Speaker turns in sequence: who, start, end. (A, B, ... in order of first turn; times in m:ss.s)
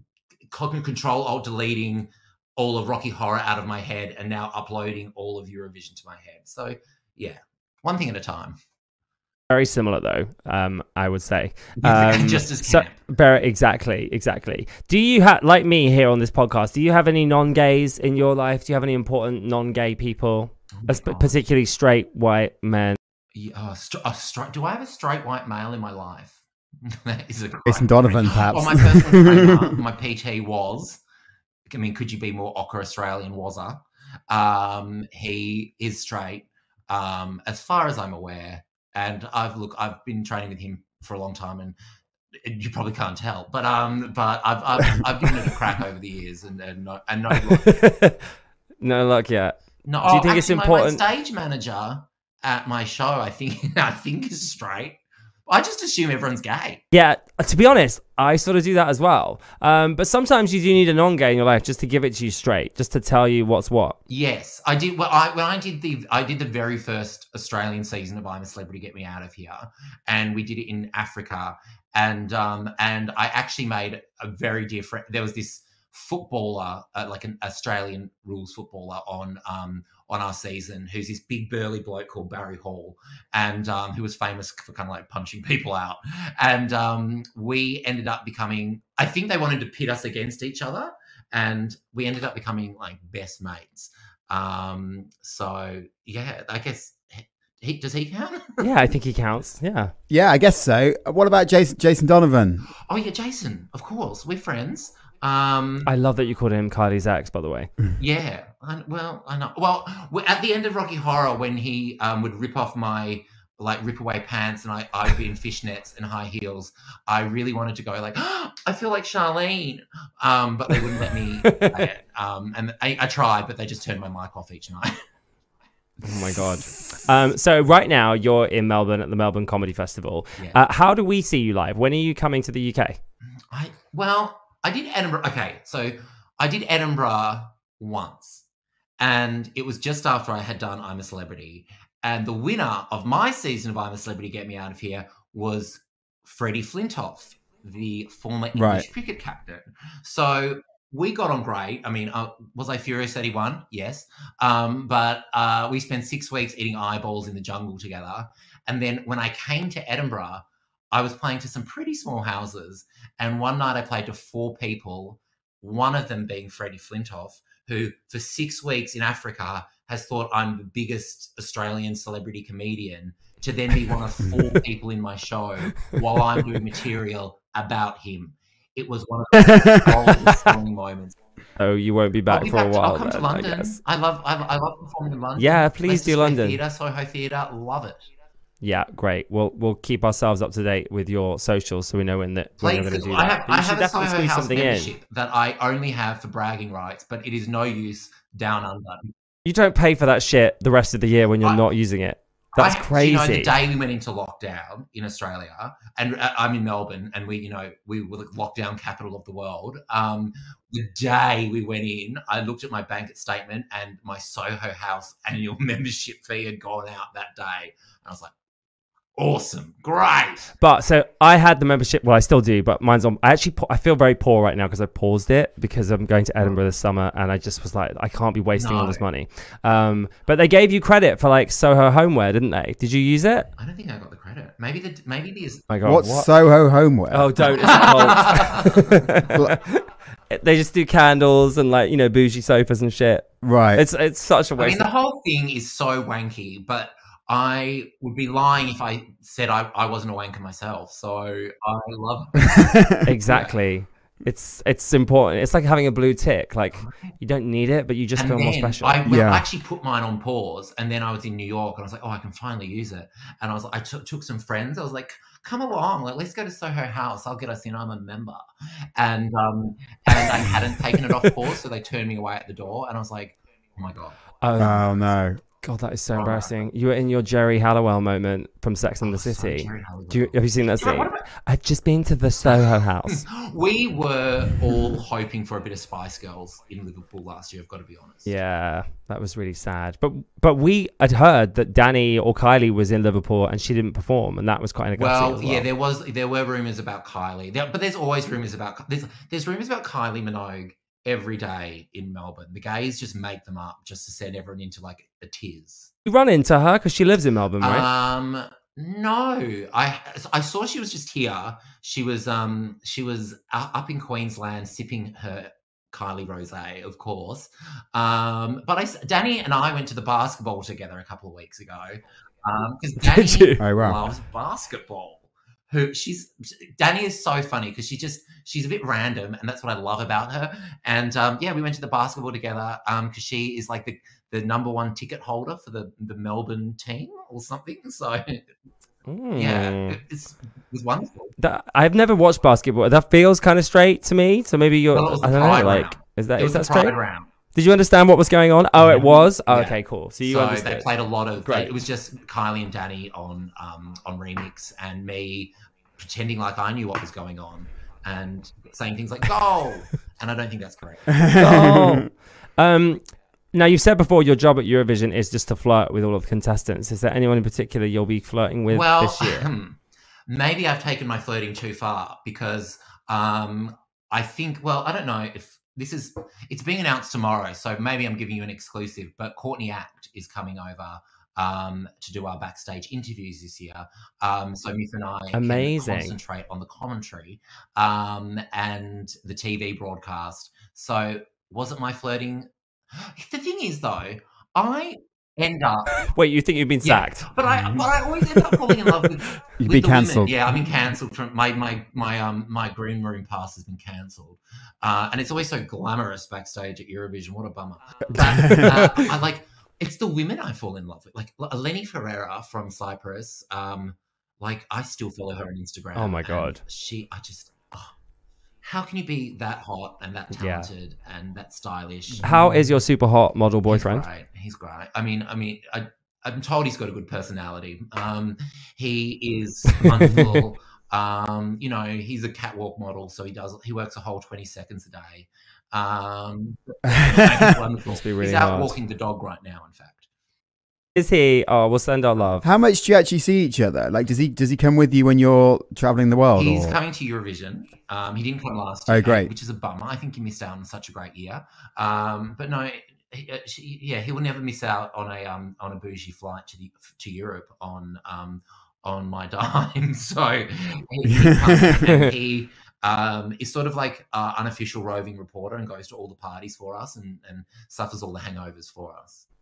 0:00.5-0:08.6 A
0:09.5-0:23.0 B
0:11.8-0:13.0 A
0:20.7-0:21.3 A
0:23.3-0:31.0 A
0:27.6-0:29.8 C
0:31.7-0:41.8 A
0:42.4-0:47.8 A
0:47.5-0:48.2 B
0:48.8-0:51.0 B
0:49.9-0:56.8 A
0:56.9-1:04.0 B
1:04.1-1:38.7 A
1:38.6-1:39.9 B
1:40.1-1:42.6 C
1:42.9-1:45.9 A
1:45.8-1:47.7 B
1:48.0-2:05.0 A
2:01.5-2:01.8 B
2:06.0-2:13.0 B
2:13.5-2:18.4 A
2:19.0-3:01.2 A
2:28.5-2:28.8 C
2:59.3-3:00.1 C
3:01.6-3:03.8 B
3:02.3-3:08.0 A
3:05.4-3:06.6 B
3:08.6-3:14.9 B
3:12.6-3:19.1 A
3:19.4-3:23.6 B
3:22.6-3:38.3 A
3:39.2-3:40.5 A
3:40.6-3:53.5 B
3:48.6-3:49.0 A
3:53.6-3:55.7 A
3:55.7-3:56.3 B
3:55.8-3:57.5 C
3:57.1-4:04.8 B
3:57.4-3:59.1 A
4:03.4-4:03.8 C
4:04.6-4:13.6 A
4:12.5-4:13.0 C
4:13.0-4:19.0 B
4:16.8-4:17.1 A
4:18.2-4:28.4 A
4:19.0-4:19.4 C
4:29.0-4:34.2 A
4:34.4-4:34.8 B
4:34.6-4:35.4 C
4:35.6-4:43.2 B
4:36.2-4:36.5 A
4:39.0-4:41.3 A
4:42.4-4:48.3 A
4:48.2-4:55.6 B
4:54.9-5:05.9 A
5:06.0-5:07.9 B
5:07.6-5:38.4 A
5:23.0-5:23.6 B
5:23.6-5:24.0 C
5:39.1-5:40.0 B
5:39.3-5:41.3 A
5:41.4-5:47.0 B
5:44.9-5:47.3 A
5:47.5-5:50.9 B
5:48.8-6:01.3 A
5:51.4-5:51.7 B
6:01.1-6:02.0 C
6:01.4-6:09.5 B
6:08.7-6:36.0 A
6:25.3-6:26.2 B
6:35.9-6:37.3 B
6:36.8-6:57.9 A
6:37.5-6:37.8 C
6:39.6-6:40.3 C
6:48.1-6:49.1 B
6:48.3-6:48.7 C
6:55.9-6:56.6 B
6:58.6-7:02.5 A
7:00.4-7:00.7 B
7:02.2-7:04.0 B
7:02.3-7:02.6 C
7:03.7-7:20.1 A
7:16.9-7:17.5 C
7:17.9-7:18.8 B
7:21.0-7:22.4 B
7:22.4-7:26.8 C
7:26.4-7:49.3 A
7:28.9-7:29.3 C
7:41.0-7:41.8 C